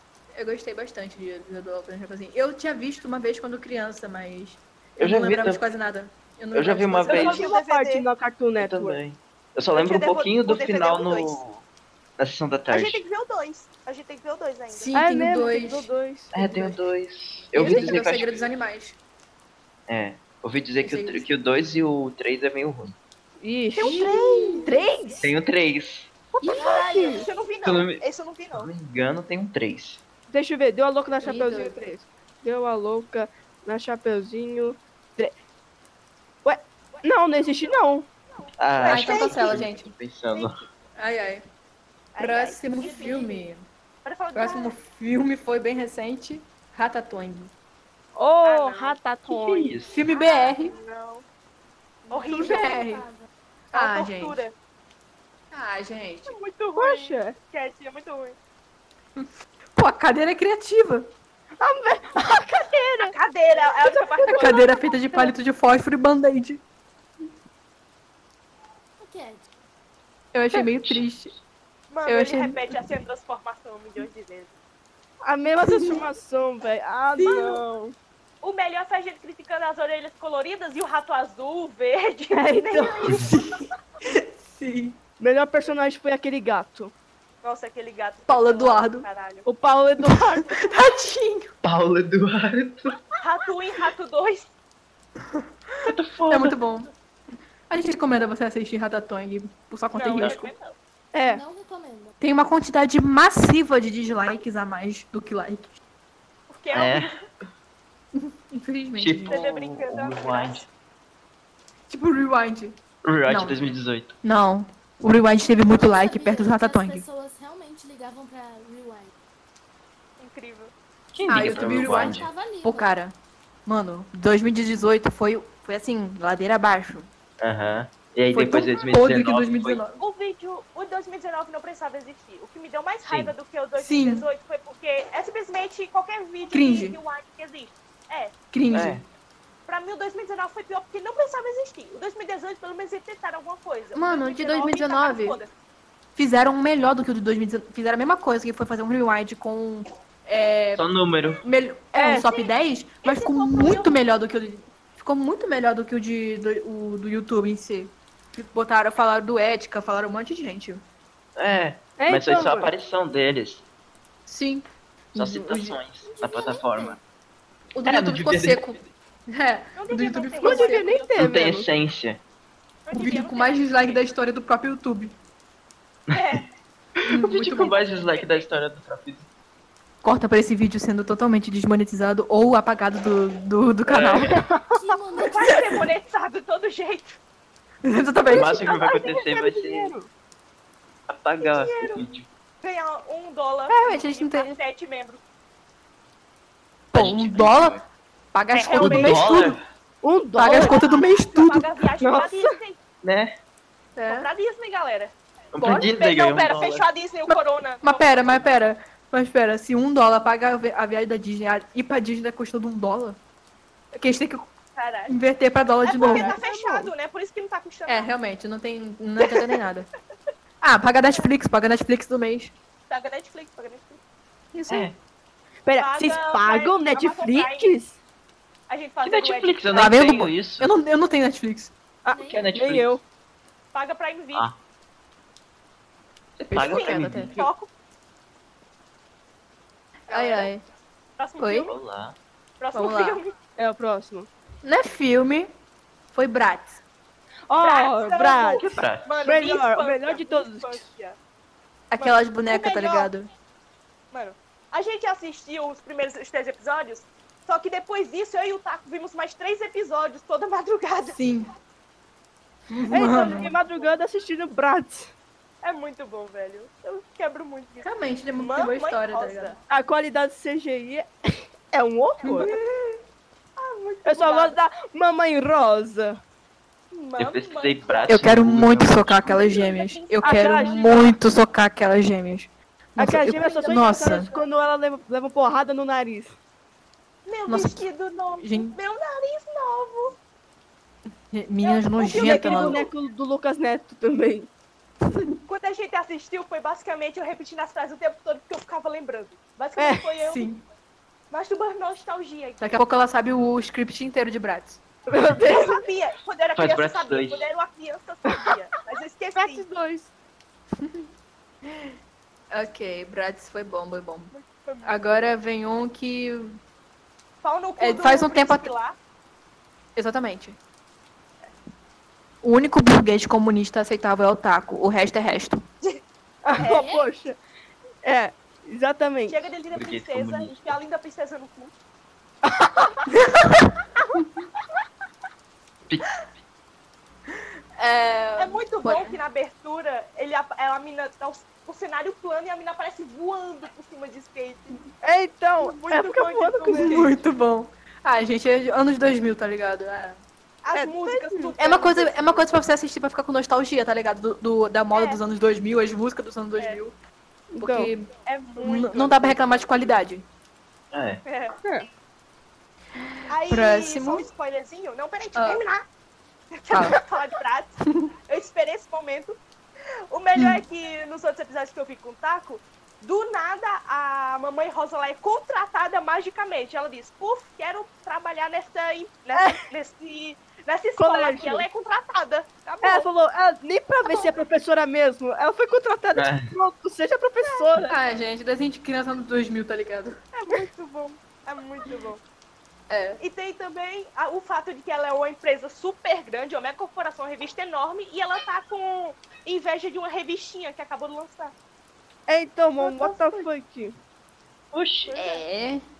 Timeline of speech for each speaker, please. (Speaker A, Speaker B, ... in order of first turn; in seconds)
Speaker A: 0.3-7.4, 14.7-15.9, 17.5-19.0, 20.8-21.3, 23.8-25.2, 26.4-26.7, 31.2-31.8, 38.9-39.9, 41.0-41.4, 42.2-43.6, 44.3-47.5, 49.9-50.7, 52.2-53.0, 53.7-54.4, 55.5-56.4, 59.1-61.1, 64.3-66.6, 70.3-71.3, 72.0-72.8, 75.6-76.0, 77.2-77.5, 82.9-85.0, 88.3-89.1, 90.0-91.5, 95.3-96.9, 97.7-100.5, 102.2-105.7, 108.1-109.4, 111.9-113.6, 114.2-117.0, 121.3-123.1, 123.7-127.1, 128.3-130.0, 133.8-134.3, 136.5-137.0, 138.5-139.0, 143.9-145.4, 146.2-150.9, 151.4-160.8, 164.2-165.8, 167.7-170.9, 172.9-175.2, 177.1-177.8, 180.0-184.4, 185.4-185.8, 187.8-188.7, 193.7-194.6, 196.9-197.8, 198.3-199.6, 200.4-201.7, 203.9-204.3, 205.6-205.9, 207.3-213.2, 213.9-214.5, 215.1-216.9, 217.9-219.9, 220.6-222.5, 224.5-224.9, 229.7-231.7, 236.5-237.3, 240.1-240.6, 241.4-241.7, 242.7-243.2, 244.6-245.5, 246.1-246.8, 251.9-253.3, 261.1-261.5, 262.7-263.5, 267.8-269.5, 272.2-273.0, 278.1-284.3, 287.5-287.9, 288.4-288.8, 291.3-292.9, 295.1-295.4, 300.2-300.6, 302.6-304.8, 310.8-311.1, 311.6-311.9, 312.5-314.3, 314.8-316.6, 317.8-318.7, 319.9-320.6, 322.4-325.6, 333.1-334.2, 337.8-339.2, 346.7-350.2, 351.6-356.9, 357.6-360.2, 363.0-364.3, 365.3-365.6, 366.7-367.0, 370.3-370.6, 387.9-390.2, 392.9-393.2, 402.8-403.2, 405.1-405.8
Speaker B: 5.0-5.6, 6.5-7.5, 8.6-11.6, 12.2-13.0, 16.3-18.4, 19.9-23.0, 25.2-26.7, 27.6-30.0, 38.6-40.6, 49.3-49.9, 70.8-71.0, 91.6-93.0, 95.8-96.6, 106.7-107.1, 109.0-110.7, 113.0-114.2, 121.1-122.3, 127.4-129.8, 133.0-133.3, 138.7-139.0, 150.7-151.4, 161.3-163.6, 165.1-167.0, 167.8-168.9, 171.2-172.2, 176.1-176.4, 177.0-179.3, 183.9-184.4, 188.3-189.9, 191.1-192.3, 196.9-197.8, 198.8-199.6, 203.0-203.3, 205.5-206.9, 224.7-224.9, 229.0-230.7, 232.2-233.0, 236.4-237.5, 241.7-242.2, 248.6-249.1, 277.2-279.6, 306.6-307.4, 329.7-330.6, 335.9-336.2, 360.9-361.2, 386.1-386.5, 404.7-405.1
Speaker C: 7.1-9.0, 14.9-16.8, 17.6-17.9, 23.4-25.2, 26.5-27.3, 30.3-35.3, 36.4-38.1, 48.1-49.8, 56.7-57.4, 61.6-63.1, 63.8-64.6, 75.2-77.9, 82.3-83.2, 85.2-86.9, 89.4-90.6, 101.1-101.4, 151.9-152.2, 162.0-162.7, 170.4-171.7, 188.4-190.1, 200.0-200.8, 202.0-202.6, 225.6-228.0, 232.0-233.0, 243.6-244.3, 247.5-248.7, 249.2-250.9, 262.9-265.1, 269.7-272.5, 274.0-276.2, 280.2-281.1, 283.0-286.3, 292.1-294.5, 299.8-300.1, 305.1-305.8, 308.2-308.6, 309.4-310.1, 326.4-327.4, 328.0-329.4, 332.5-332.9, 345.0-347.1, 350.7-351.5, 357.5-359.4, 379.3-379.7, 381.0-381.6, 382.8-388.0, 402.3-404.0
Speaker D: 7.1-8.1, 9.7-11.4, 12.7-14.9, 23.8-24.7, 26.4-28.7, 36.9-37.8, 38.3-39.6, 42.1-43.4, 44.0-44.8, 48.4-49.0, 50.0-51.2, 52.1-52.8, 53.7-54.5, 56.3-58.4, 63.0-65.3, 71.9-74.5, 78.4-83.3, 87.4-89.5, 93.2-94.5, 99.9-100.8, 106.5-107.2, 109.3-110.7, 120.2-120.7, 130.0-138.3, 139.7-145.5, 152.1-152.5, 153.0-154.0, 169.8-171.2, 172.8-174.0, 176.1-176.5, 177.6-178.5, 185.2-187.2, 191.4-192.1, 192.6-195.2, 198.5-199.4, 200.5-202.8, 204.1-205.1, 205.7-208.5, 214.8-215.1, 215.8-218.1, 219.2-219.6, 222.9-224.0, 225.8-227.7, 228.7-229.9, 233.7-234.5, 236.6-237.7, 240.1-240.5, 241.2-241.8, 242.6-243.3, 247.6-251.2, 252.0-253.1, 254.1-261.2, 263.0-263.9, 265.6-269.6, 272.2-272.6, 273.6-274.6, 276.9-278.2, 279.2-281.1, 283.4-284.4, 287.2-290.2, 291.6-292.9, 295.5-300.5, 301.3-302.8, 305.4-309.6, 314.3-315.3, 317.4-318.9, 326.6-326.9, 329.3-331.7, 338.4-344.8, 345.6-347.1, 350.6-352.5, 354.9-355.2, 358.6-359.2, 361.2-361.6, 363.3-365.8, 366.5-367.7, 368.3-369.4, 370.1-383.1, 384.0-384.4, 387.4-387.7, 390.3-392.2, 393.2-401.5, 405.1-405.4
Speaker E: 52.3-53.2, 69.0-69.4, 101.2-102.1, 115.7-119.1, 121.3-122.9, 166.1-167.0, 184.7-185.6, 232.1-232.4, 326.6-327.1